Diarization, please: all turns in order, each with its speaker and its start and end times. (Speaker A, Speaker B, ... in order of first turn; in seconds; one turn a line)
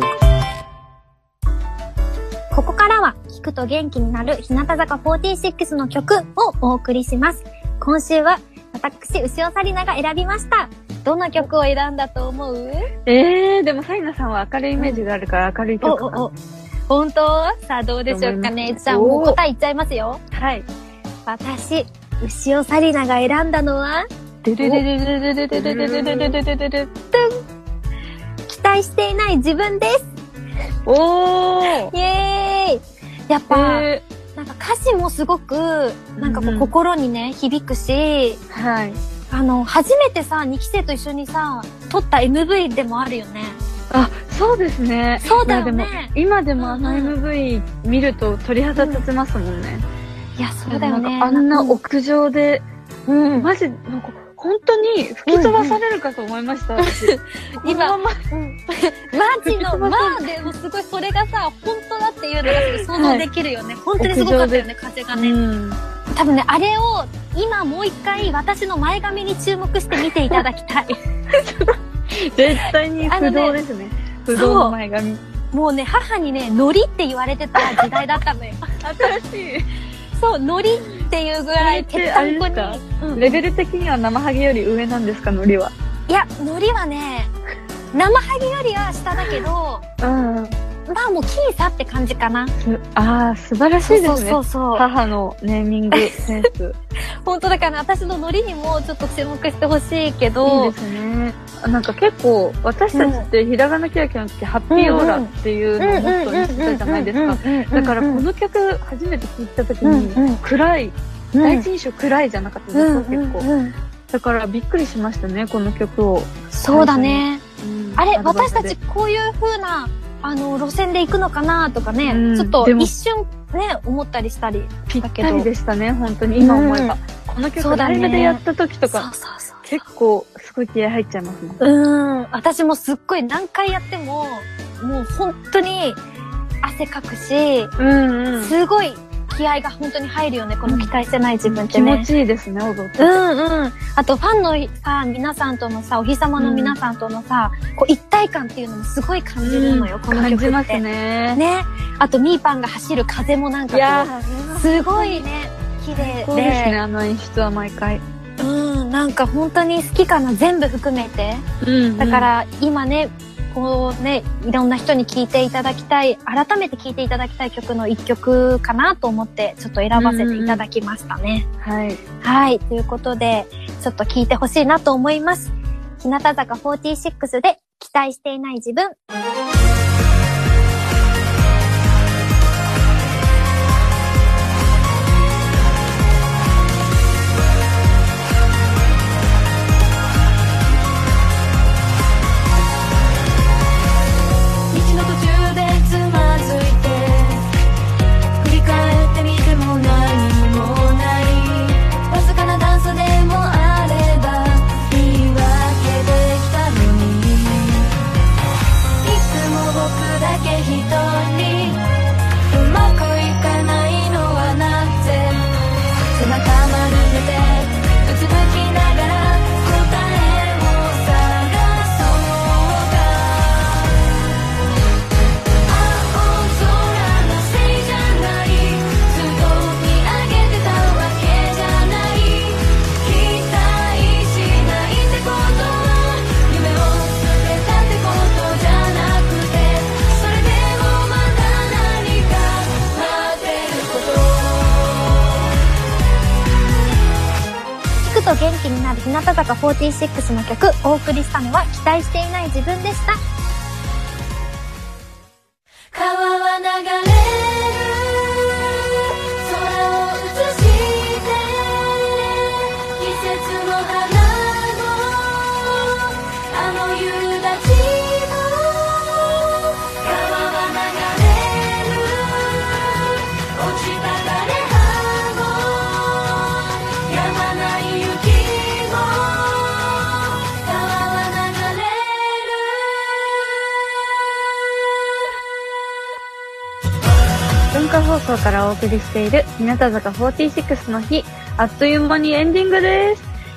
Speaker A: 2.5-12.9
Speaker B: 13.1-16.3
Speaker A: 14.8-15.0
Speaker A: 15.8-16.3
Speaker A: 16.9-20.2
Speaker B: 18.1-19.4
Speaker B: 20.3-20.7
Speaker A: 21.3-24.1
Speaker B: 24.4-24.8
Speaker A: 24.6-27.4
Speaker B: 25.5-26.4
Speaker A: 28.5-30.1
Speaker B: 30.9-31.9
Speaker A: 31.9-38.4
Speaker B: 33.5-34.0
Speaker B: 36.2-36.7
Speaker B: 38.5-39.0
Speaker A: 39.3-43.6
Speaker B: 43.9-49.8
Speaker A: 45.2-47.1
Speaker A: 48.8-49.0
Speaker A: 50.4-51.8
Speaker B: 50.7-52.6
Speaker A: 53.1-53.5
Speaker B: 53.4-58.2
Speaker A: 55.3-55.8
Speaker A: 56.8-65.4
Speaker B: 59.3-60.3
Speaker B: 62.4-63.3
Speaker B: 64.0-65.8
Speaker A: 66.1-71.5
Speaker B: 72.1-75.2
Speaker A: 73.0-73.6
Speaker A: 74.3-74.7
Speaker A: 75.5-79.1
Speaker B: 77.6-78.2
Speaker B: 78.8-79.7
Speaker A: 80.2-83.4
Speaker B: 81.6-85.7
Speaker A: 86.1-87.3
Speaker A: 87.9-89.8
Speaker B: 90.0-90.5
Speaker A: 90.9-92.5
Speaker B: 92.6-96.7
Speaker A: 93.9-94.8
Speaker A: 95.9-96.3
Speaker A: 97.2-100.7
Speaker B: 100.4-113.5
Speaker A: 102.9-103.3
Speaker A: 104.7-108.2
Speaker A: 109.8-110.4
Speaker A: 111.3-111.7
Speaker A: 112.7-113.7
Speaker B: 114.1-118.8
Speaker A: 116.5-117.4
Speaker A: 118.0-125.5
Speaker B: 122.0-122.9
Speaker B: 124.9-129.1
Speaker A: 126.4-127.0
Speaker A: 127.6-129.8
Speaker B: 129.7-131.6
Speaker A: 131.6-136.0
Speaker A: 136.6-137.7
Speaker B: 137.8-138.5
Speaker A: 138.4-142.1
Speaker B: 140.7-140.9
Speaker B: 141.4-143.2
Speaker A: 143.0-150.8
Speaker B: 146.4-146.8
Speaker B: 149.4-151.4
Speaker A: 151.3-156.8
Speaker B: 153.7-155.2
Speaker B: 155.9-158.0
Speaker A: 158.4-161.4
Speaker B: 161.6-162.3
Speaker A: 162.0-171.4
Speaker B: 169.9-170.6
Speaker B: 171.6-172.0
Speaker A: 172.2-178.9
Speaker C: 194.7-197.5
Speaker C: 198.4-207.9
Speaker C: 209.0-211.8
Speaker C: 212.5-215.5
Speaker C: 216.1-224.0
Speaker C: 225.6-245.4
Speaker A: 248.0-253.2
Speaker C: 255.9-258.8
Speaker C: 259.4-283.4
Speaker B: 287.7-293.2